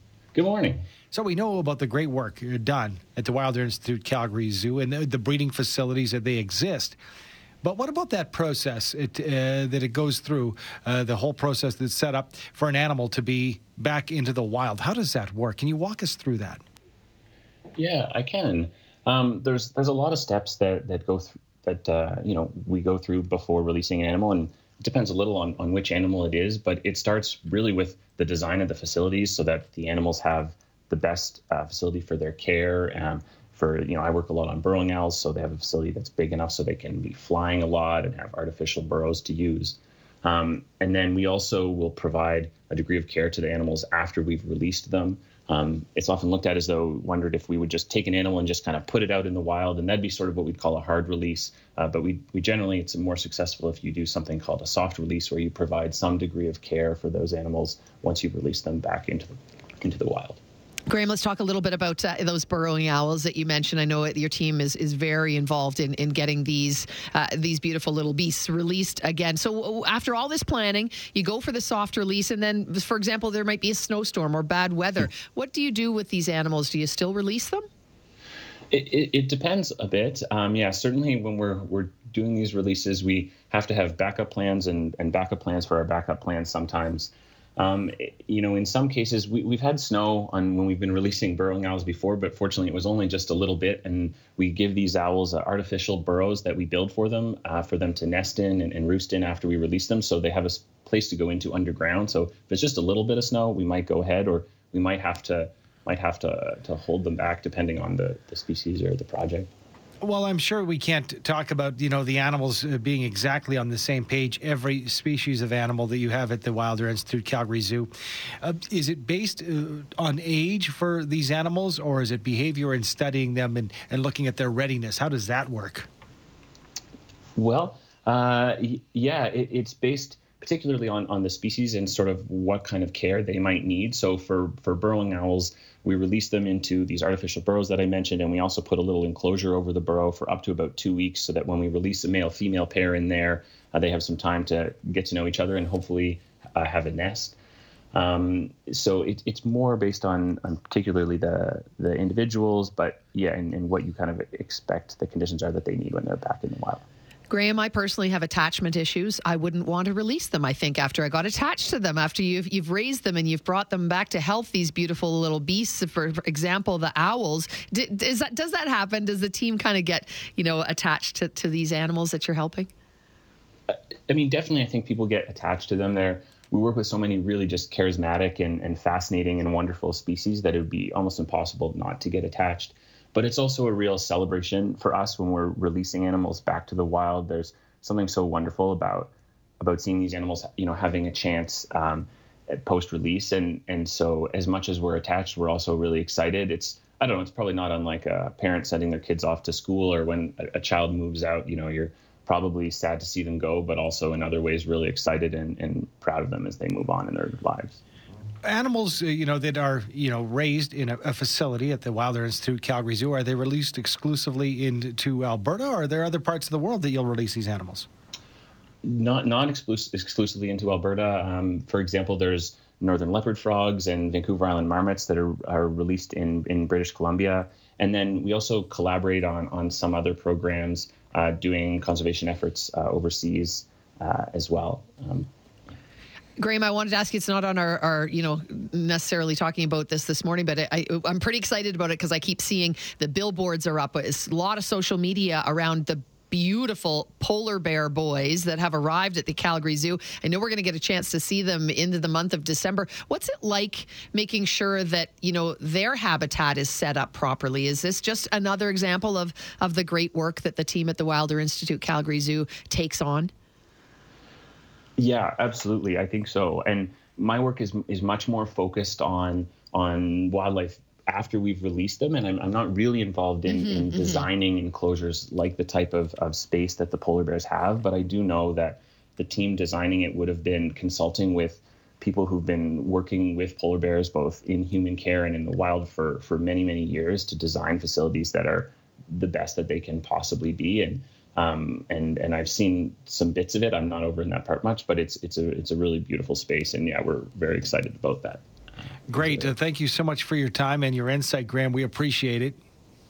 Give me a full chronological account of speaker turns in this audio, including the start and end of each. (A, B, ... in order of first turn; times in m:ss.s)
0:00.3-0:00.8 A
0:01.1-0:07.0 B
0:07.6-0:16.6 B
0:17.8-1:00.4 A
1:00.9-1:17.6 C
1:18.7-1:49.5 A
1:50.0-1:57.9 B
1:58.4-2:05.9 B
2:07.4-2:27.4 A
2:27.9-2:36.8 A
2:37.3-2:52.7 C
2:53.7-3:27.8 A
3:28.4-3:37.9 B
3:38.8-3:55.3 A
3:56.4-4:23.3 C
4:25.0-4:58.4 A
4:33.5-4:34.2 C
4:59.1-5:02.6 B
4:59.1-4:59.5 A